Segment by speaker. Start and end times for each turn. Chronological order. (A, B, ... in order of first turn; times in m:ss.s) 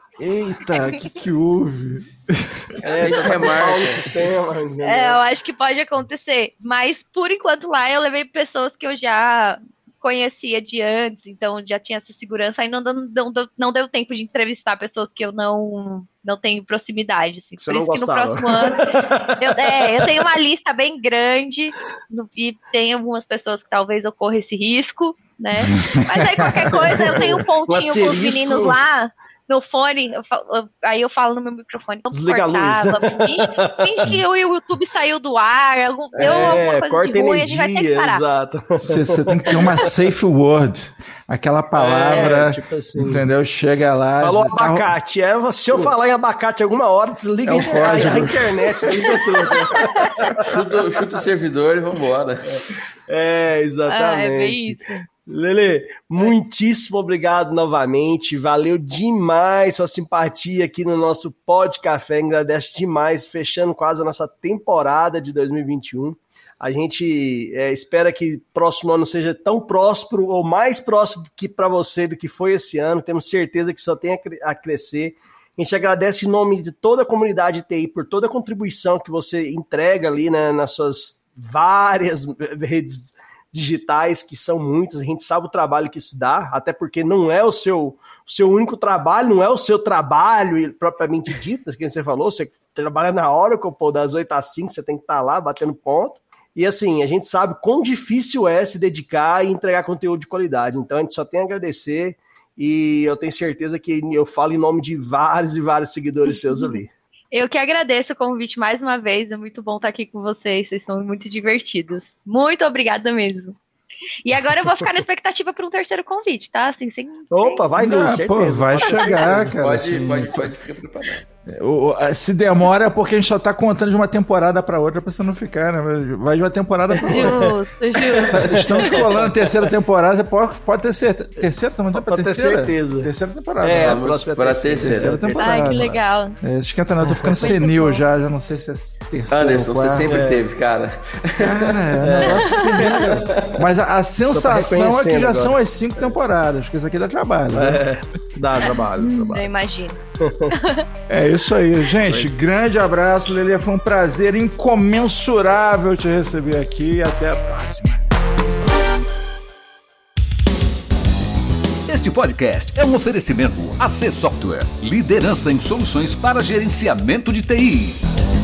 0:00.2-0:03.5 A
0:02.8-0:05.2 B
0:02.9-0:04.2 C
0:04.8-0:18.8 D
0:17.6-0:20.1 B
0:19.4-0:38.2 D
0:25.6-0:27.2 A
0:26.8-0:28.8 B
0:32.1-0:33.9 B
0:36.2-0:40.0 B
0:38.8-0:44.9 A
0:41.8-0:43.2 B
0:42.1-0:42.4 D
0:44.2-0:50.6 B
0:45.7-0:46.0 A
0:47.4-0:49.0 A
0:48.9-0:50.3 D
0:50.4-0:52.6 C
0:52.5-1:46.9 B
0:53.9-0:55.1 D
1:46.3-1:46.8 D
1:47.3-1:53.6 D
1:54.2-1:57.6 D
1:57.3-1:59.6 B
1:57.8-2:00.6 A
1:58.8-1:59.2 D
1:59.5-2:01.3 C
2:01.5-2:07.5 A
2:06.9-2:08.9 B
2:07.1-2:08.5 D
2:08.3-2:14.0 A
2:08.8-2:09.2 C
2:11.9-2:16.0 B
2:13.7-2:15.2 C
2:14.8-2:20.2 A
2:15.4-2:16.4 D
2:17.0-2:17.5 B
2:17.4-2:18.0 D
2:19.3-2:22.0 C
2:20.1-2:20.4 B
2:21.4-2:27.8 A
2:22.0-2:22.6 B
2:22.3-2:23.0 D
2:22.8-2:23.6 C
2:24.3-2:26.2 B
2:27.5-2:29.5 B
2:28.6-2:30.0 D
2:30.2-2:30.5 B
2:30.5-2:30.8 D
2:31.1-2:38.0 A
2:32.0-2:32.3 B
2:41.9-2:48.0 E